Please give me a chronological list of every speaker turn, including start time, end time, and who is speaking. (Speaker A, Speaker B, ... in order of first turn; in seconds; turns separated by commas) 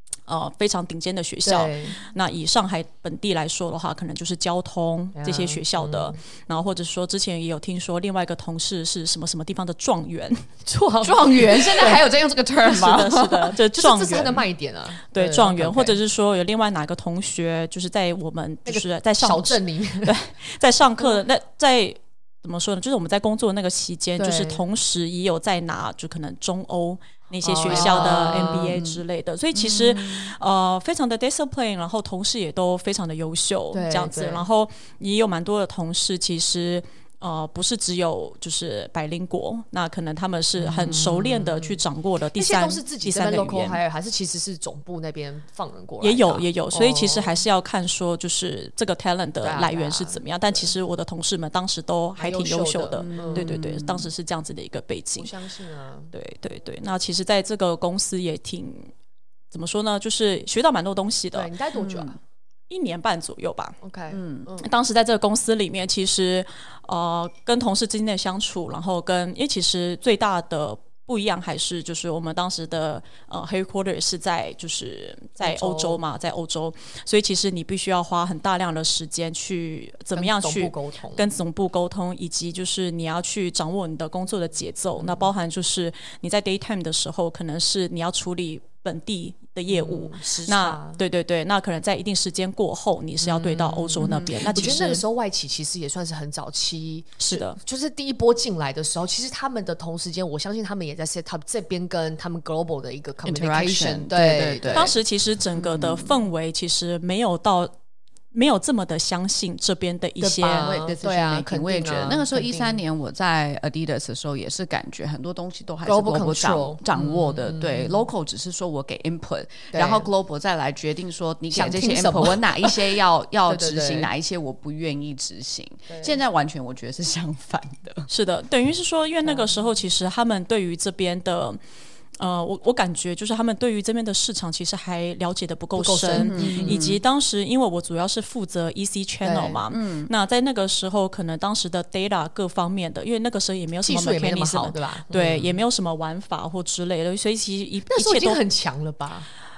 Speaker A: 0.3-10.4, Speaker B: 1.4-2.0, Speaker B: 5.2-6.2, Speaker B: 10.6-12.0, Speaker C: 11.0-13.6, Speaker A: 12.6-14.5, Speaker B: 13.7-16.0, Speaker A: 15.1-43.8, Speaker B: 18.6-20.1, Speaker B: 24.2-24.6, Speaker B: 27.4-28.8, Speaker C: 27.6-29.0, Speaker C: 29.5-30.3, Speaker B: 33.7-34.4, Speaker C: 40.6-41.6, Speaker B: 42.4-47.4, Speaker A: 46.0-55.3, Speaker B: 49.4-50.7, Speaker B: 52.2-53.5, Speaker C: 53.0-54.1, Speaker B: 55.2-56.1, Speaker A: 56.1-58.9, Speaker A: 59.5-61.5, Speaker B: 61.3-62.2, Speaker C: 61.7-62.2, Speaker A: 62.7-63.8, Speaker B: 63.8-64.7, Speaker C: 64.1-64.5, Speaker A: 64.6-95.0, Speaker B: 75.4-76.0, Speaker B: 80.1-81.2, Speaker B: 85.0-85.3, Speaker B: 89.7-91.0, Speaker B: 93.2-104.9, Speaker C: 94.0-94.8, Speaker A: 97.2-97.6, Speaker C: 103.2-104.9, Speaker A: 104.7-107.7, Speaker C: 105.5-106.2, Speaker A: 108.3-110.7, Speaker B: 110.2-112.8, Speaker C: 110.5-128.1, Speaker B: 115.8-118.0, Speaker B: 119.7-120.1, Speaker B: 121.5-124.1, Speaker B: 125.9-126.1, Speaker A: 128.1-131.6, Speaker B: 129.2-129.5, Speaker A: 132.2-148.4, Speaker B: 135.8-136.9, Speaker C: 136.1-137.0, Speaker B: 139.2-139.6, Speaker C: 139.7-140.1, Speaker B: 143.8-145.6, Speaker B: 147.9-149.3